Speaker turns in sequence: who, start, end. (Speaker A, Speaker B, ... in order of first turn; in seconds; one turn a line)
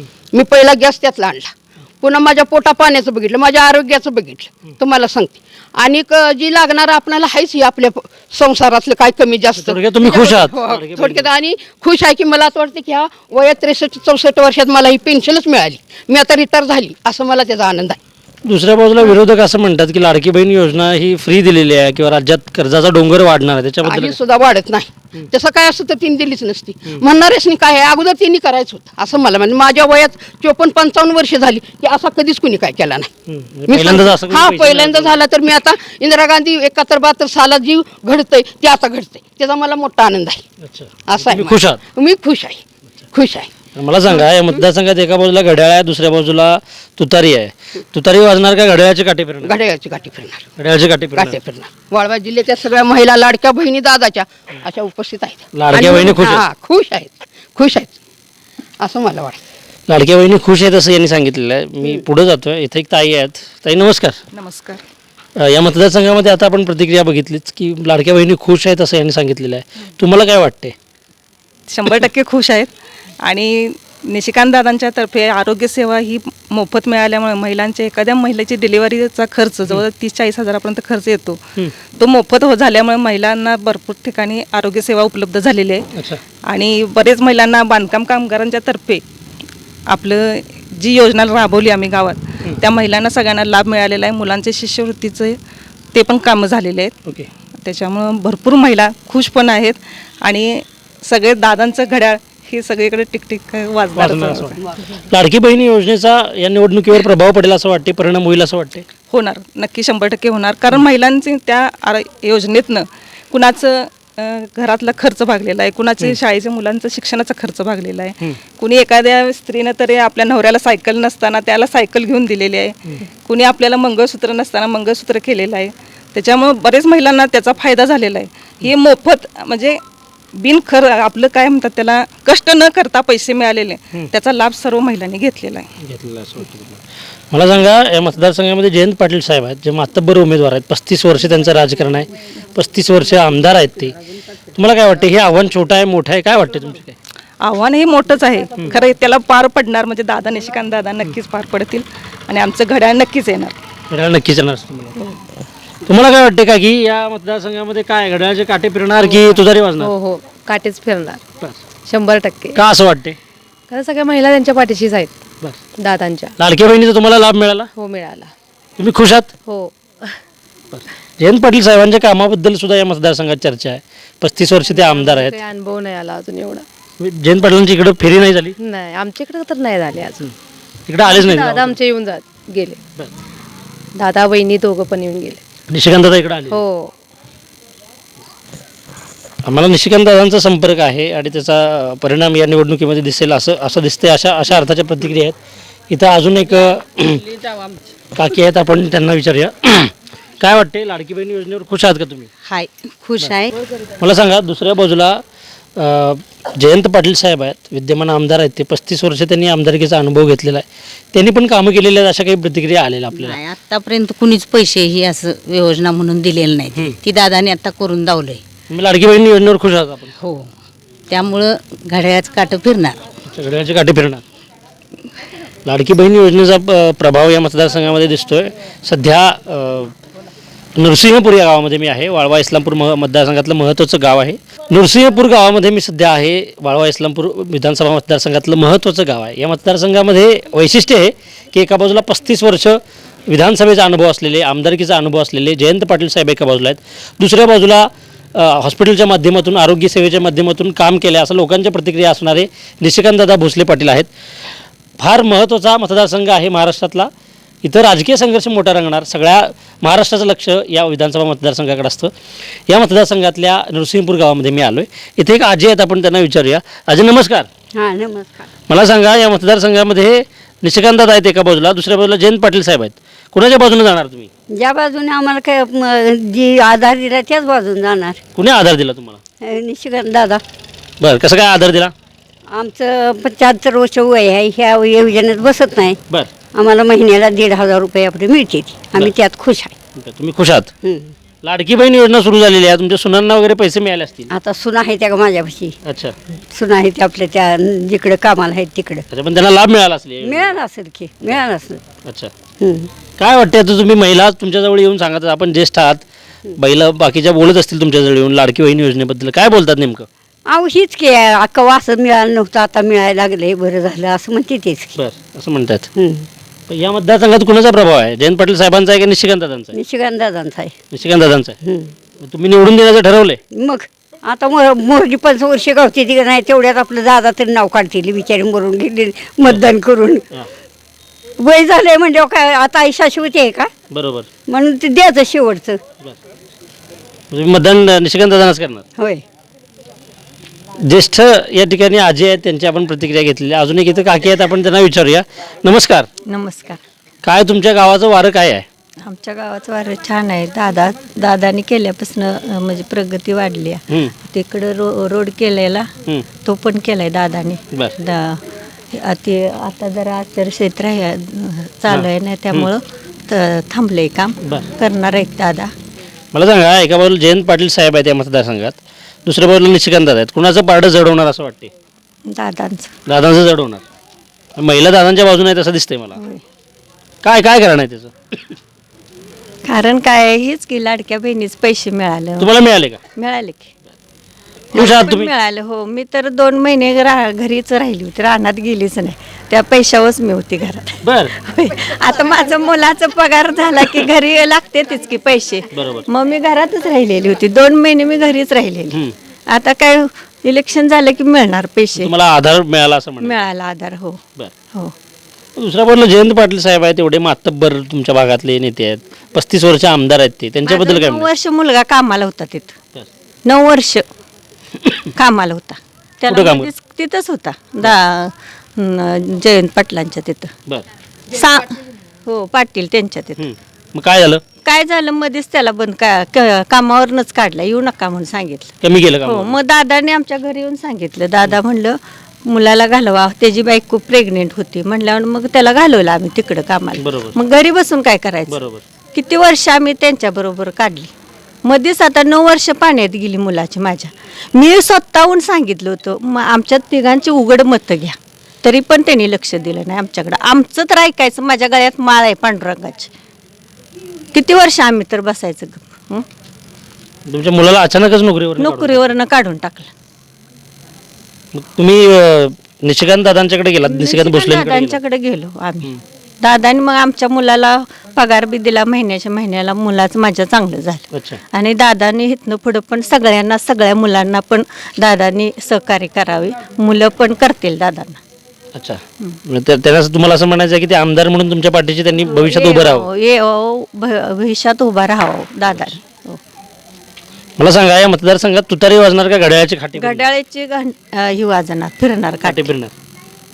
Speaker A: 0.3-18.0
Speaker B: 9.6-11.3
Speaker B: 18.4-24.2
Speaker A: 23.8-33.1
Speaker B: 33.3-35.2
Speaker A: 33.7-40.4
Speaker B: 40.6-41.8
Speaker A: 41.1-43.5
Speaker B: 43.8-49.5
Speaker A: 49.4-50.5
Speaker B: 50.6-51.4
Speaker A: 51.2-58.0
Speaker B: 55.5-56.5
Speaker A: 58.8-59.4
Speaker B: 59.9-64.2
Speaker C: 64.3-64.8
Speaker B: 65.4-70.8
Speaker C: 71.7-72.7
Speaker C: 73.2-81.4
Speaker C: 82.0-85.8
Speaker C: 86.5-89.0
Speaker C: 89.9-95.4
Speaker C: 95.9-96.9
Speaker C: 97.7-104.6
Speaker B: 104.0-108.9
Speaker C: 109.1-129.8
Speaker C: 130.4-135.7
Speaker B: 135.8-136.8
Speaker B: 137.3-143.9
Speaker B: 144.5-147.0
Speaker C: 147.4-153.5
Speaker B: 153.9-155.0
Speaker B: 155.9-159.9
Speaker D: 159.0-161.2
Speaker D: 161.9-162.6
Speaker B: 162.6-163.2
Speaker D: 163.7-165.2
Speaker D: 165.8-166.3
Speaker B: 166.4-167.7
Speaker D: 167.8-168.3
Speaker B: 168.8-169.3
Speaker D: 169.4-169.7
Speaker B: 170.7-175.4
Speaker D: 174.7-176.7
Speaker B: 177.0-178.6
Speaker D: 178.6-180.3
Speaker B: 180.9-181.8
Speaker D: 181.0-182.8
Speaker D: 183.9-185.4
Speaker B: 185.7-186.6
Speaker D: 186.5-186.9
Speaker B: 189.4-195.4
Speaker B: 195.9-197.2
Speaker B: 198.2-202.3
Speaker E: 202.4-203.5
Speaker B: 204.0-205.2
Speaker B: 205.8-213.4
Speaker E: 213.2-218.4
Speaker B: 218.7-220.1
Speaker E: 220.2-220.5
Speaker E: 221.1-223.0
Speaker B: 223.3-224.2
Speaker B: 225.7-229.9
Speaker B: 230.8-254.1
Speaker B: 255.0-257.1
Speaker B: 257.6-262.1
Speaker B: 262.7-267.5
Speaker F: 267.7-268.5
Speaker B: 268.7-274.3
Speaker F: 274.5-278.2
Speaker B: 278.4-279.2
Speaker F: 279.4-280.4
Speaker B: 281.0-281.9
Speaker F: 282.5-286.0
Speaker F: 286.5-289.8
Speaker B: 290.0-290.7
Speaker F: 290.8-291.1
Speaker B: 291.4-294.3
Speaker F: 294.3-295.8
Speaker B: 295.9-296.1
Speaker F: 296.5-299.1
Speaker B: 299.1-300.6
Speaker F: 300.2-301.8
Speaker B: 302.1-302.3
Speaker F: 302.6-302.9
Speaker B: 303.2-310.1
Speaker F: 310.5-315.0
Speaker B: 314.9-315.9
Speaker F: 315.9-316.3
Speaker B: 316.7-319.8
Speaker F: 319.7-320.8
Speaker B: 320.9-321.6
Speaker F: 321.6-321.9
Speaker B: 322.2-323.4
Speaker F: 323.5-330.2
Speaker F: 331.4-333.7
Speaker B: 333.9-334.3
Speaker F: 334.5-335.8
Speaker B: 337.3-338.8
Speaker F: 339.0-339.2
Speaker B: 340.8-346.1
Speaker G: 346.3-346.8
Speaker B: 347.2-348.6
Speaker G: 349.1-355.9
Speaker G: 356.4-358.4
Speaker G: 358.9-365.7
Speaker B: 361.9-362.7
Speaker B: 366.3-371.7
Speaker G: 372.3-372.9
Speaker B: 373.1-373.8
Speaker B: 374.6-376.2
Speaker G: 376.1-376.4
Speaker B: 377.2-378.4
Speaker G: 379.7-382.5
Speaker B: 382.4-383.0
Speaker G: 383.1-383.7
Speaker B: 384.8-385.3
Speaker G: 384.8-402.1
Speaker B: 391.1-391.3
Speaker B: 395.7-396.1
Speaker B: 402.0-403.5
Speaker G: 403.2-404.2
Speaker B: 405.6-411.3
Speaker G: 410.6-412.7
Speaker G: 413.4-414.0
Speaker G: 415.1-420.5
Speaker B: 416.3-416.7
Speaker G: 421.3-421.7
Speaker G: 422.3-423.4
Speaker B: 423.4-424.4
Speaker G: 424.6-438.6
Speaker B: 428.8-429.6
Speaker B: 437.0-437.4
Speaker B: 438.5-438.8
Speaker G: 439.1-441.1
Speaker G: 441.6-453.1
Speaker G: 454.3-456.2
Speaker B: 457.3-459.1
Speaker G: 458.6-459.9
Speaker B: 461.6-465.0
Speaker G: 463.8-465.9
Speaker G: 466.4-478.2
Speaker B: 478.8-483.1
Speaker G: 482.3-486.4
Speaker B: 487.6-490.2
Speaker G: 490.0-492.7
Speaker B: 492.4-492.9